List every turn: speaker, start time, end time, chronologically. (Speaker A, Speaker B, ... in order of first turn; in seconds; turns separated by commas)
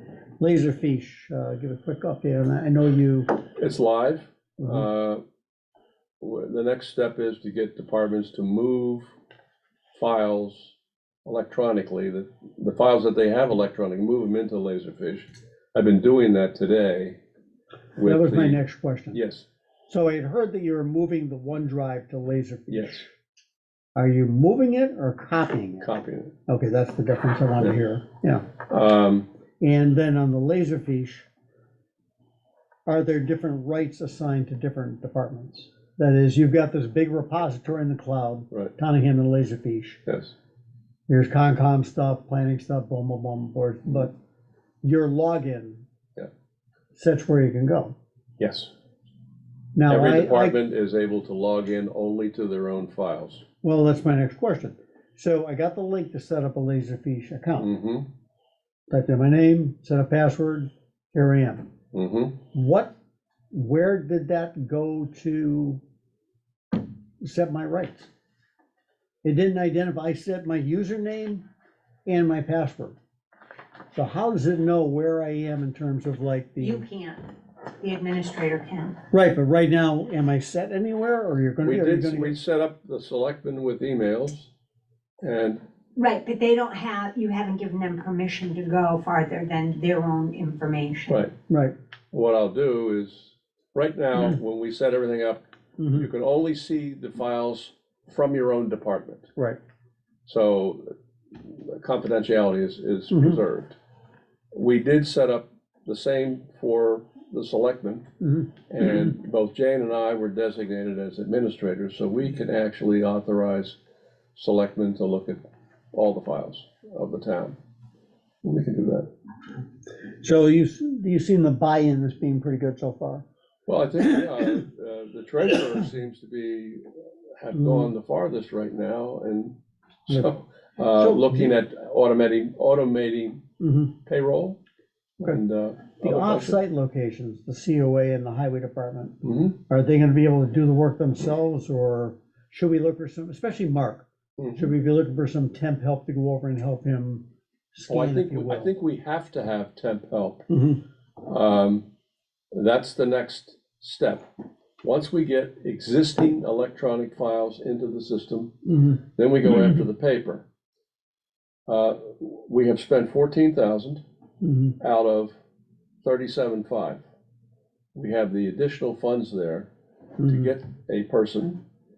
Speaker A: 0.4-3.4, Speaker B: 3.6-5.2, Speaker B: 6.2-9.1, Speaker B: 9.9-17.2, Speaker B: 17.9-18.6, Speaker A: 18.0-19.2, Speaker B: 19.1-19.4, Speaker A: 19.9-23.1, Speaker B: 22.7-23.0, Speaker A: 23.9-25.9, Speaker B: 25.8-26.3, Speaker A: 26.5-28.5, Speaker B: 28.7-29.3, Speaker A: 29.6-31.3, Speaker A: 32.9-40.0, Speaker B: 40.0-40.3, Speaker A: 41.1-44.1, Speaker A: 44.8-45.9, Speaker A: 46.9-47.9, Speaker B: 48.4-48.7, Speaker A: 49.7-50.6, Speaker B: 49.9-53.4, Speaker A: 53.6-57.7, Speaker B: 57.6-58.1, Speaker A: 58.9-61.7, Speaker B: 61.9-62.4, Speaker A: 62.5-62.9, Speaker A: 63.5-65.8, Speaker A: 67.2-68.1, Speaker A: 69.2-71.4, Speaker A: 72.0-73.0, Speaker A: 73.9-76.8, Speaker C: 76.6-77.3, Speaker C: 77.8-79.0, Speaker A: 79.1-82.3, Speaker B: 81.6-84.5, Speaker B: 85.2-85.6, Speaker C: 86.0-91.2, Speaker B: 91.1-91.3, Speaker A: 91.5-91.7, Speaker B: 92.1-95.4, Speaker A: 95.8-96.1, Speaker B: 95.9-99.3, Speaker B: 100.2-103.7, Speaker A: 103.1-103.4, Speaker B: 104.5-108.1, Speaker A: 108.2-108.8, Speaker B: 108.7-113.8, Speaker B: 114.3-117.5, Speaker B: 118.4-119.1, Speaker A: 120.2-123.2, Speaker B: 123.7-129.5, Speaker A: 127.5-127.9, Speaker B: 130.1-133.4, Speaker A: 130.9-131.5, Speaker A: 133.6-133.9, Speaker B: 134.1-134.6, Speaker B: 135.2-136.6, Speaker A: 136.0-139.2, Speaker B: 139.2-139.6, Speaker A: 139.7-148.7, Speaker B: 144.4-144.7, Speaker B: 147.9-150.4, Speaker A: 150.5-150.8, Speaker B: 151.2-151.8, Speaker B: 152.5-154.2, Speaker B: 154.8-160.4, Speaker A: 158.7-158.9, Speaker B: 161.7-164.0, Speaker A: 164.4-164.8, Speaker B: 164.8-165.3, Speaker B: 166.0-167.0, Speaker B: 167.9-169.7, Speaker A: 170.2-170.5, Speaker B: 170.2-171.6